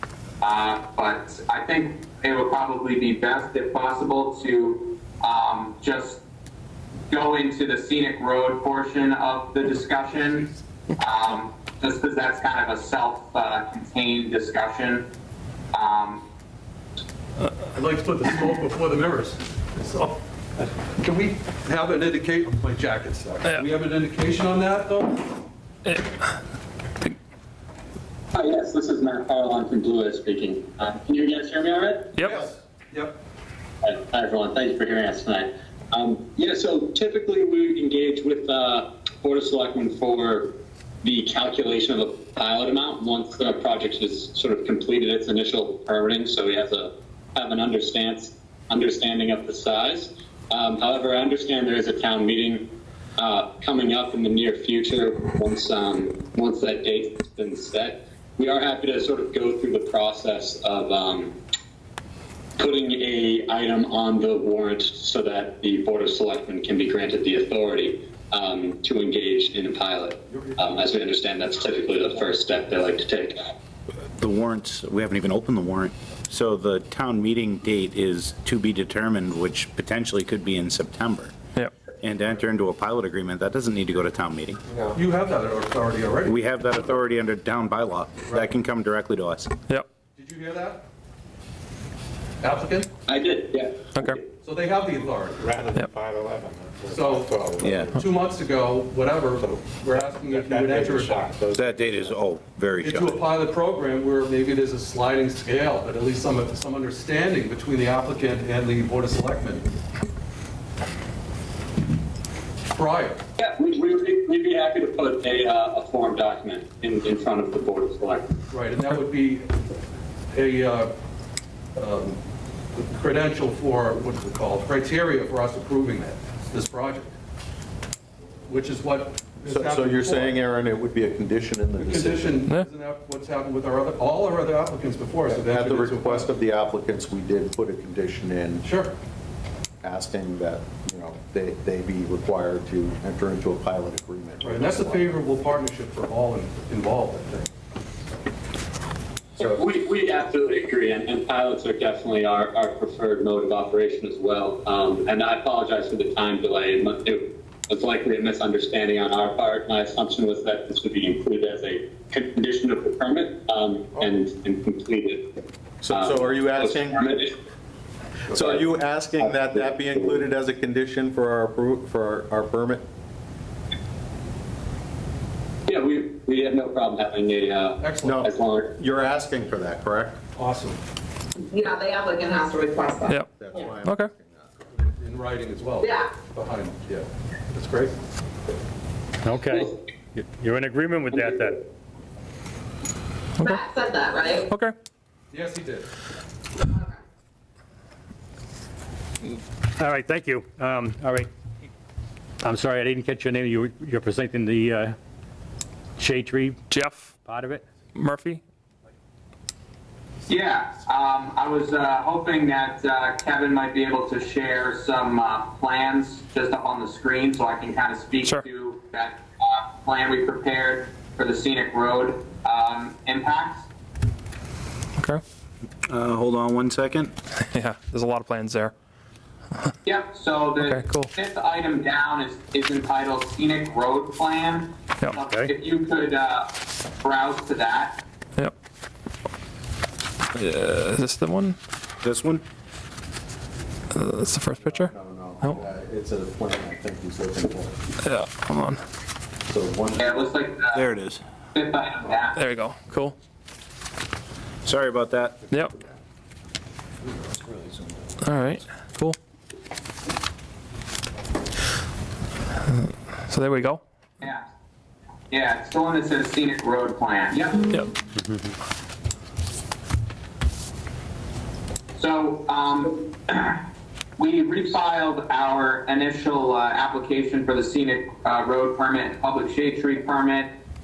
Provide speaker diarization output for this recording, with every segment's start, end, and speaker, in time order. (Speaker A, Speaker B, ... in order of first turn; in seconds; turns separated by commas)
Speaker A: 0.4-6.2, Speaker A: 7.1-15.1, Speaker A: 15.7-16.2, Speaker B: 17.7-25.2, Speaker C: 25.9-26.1, Speaker D: 28.3-32.1, Speaker C: 32.1-32.4, Speaker B: 32.3-33.2, Speaker D: 33.8-40.5, Speaker D: 41.0-61.4, Speaker D: 62.6-73.5, Speaker B: 70.3-70.8, Speaker E: 74.2-81.3, Speaker E: 82.0-84.6, Speaker B: 84.9-86.4, Speaker E: 86.2-89.5, Speaker B: 90.1-90.8, Speaker B: 92.4-92.9, Speaker D: 93.1-94.1, Speaker C: 94.0-94.2, Speaker B: 94.4-95.5, Speaker F: 95.4-98.2, Speaker B: 96.9-97.4, Speaker E: 97.6-98.0, Speaker B: 98.0-101.2, Speaker F: 99.4-102.2, Speaker E: 101.5-103.2, Speaker B: 102.8-109.7, Speaker B: 112.7-113.2, Speaker D: 113.4-118.3, Speaker B: 118.5-119.5, Speaker B: 120.3-120.9, Speaker B: 121.8-122.2, Speaker B: 122.7-127.1, Speaker B: 128.5-130.4, Speaker G: 129.5-132.4, Speaker B: 131.8-136.3, Speaker G: 135.3-138.7, Speaker B: 138.6-138.9, Speaker G: 139.8-145.2, Speaker B: 144.4-147.5, Speaker D: 149.4-165.2, Speaker G: 165.8-167.1, Speaker D: 165.9-167.4, Speaker G: 168.3-172.8, Speaker D: 168.3-168.7, Speaker D: 175.7-178.7, Speaker B: 177.8-178.2, Speaker G: 178.0-180.2, Speaker B: 180.4-180.8, Speaker H: 181.4-183.1, Speaker C: 183.1-184.1, Speaker G: 183.4-184.6, Speaker B: 184.7-188.0, Speaker I: 189.2-191.6, Speaker C: 193.4-193.7, Speaker H: 193.4-194.4, Speaker C: 194.3-194.8, Speaker B: 195.3-195.9, Speaker I: 196.6-196.9, Speaker I: 199.8-201.3, Speaker I: 202.4-205.0, Speaker I: 206.0-206.6, Speaker C: 206.7-207.2, Speaker I: 207.2-207.6, Speaker C: 207.9-208.4, Speaker A: 210.3-223.7, Speaker E: 225.9-227.1, Speaker C: 227.5-228.7, Speaker A: 229.8-238.0, Speaker C: 230.6-231.1, Speaker C: 240.3-241.6, Speaker E: 242.0-242.4, Speaker C: 243.9-244.9, Speaker G: 244.6-247.7, Speaker C: 248.0-248.8, Speaker G: 249.5-250.2, Speaker A: 250.0-250.8, Speaker E: 250.7-251.2, Speaker A: 251.5-252.4, Speaker C: 252.3-253.2, Speaker E: 254.7-255.5, Speaker C: 258.2-259.2, Speaker C: 262.7-263.8, Speaker A: 265.3-267.7, Speaker A: 272.0-273.6, Speaker A: 274.2-280.5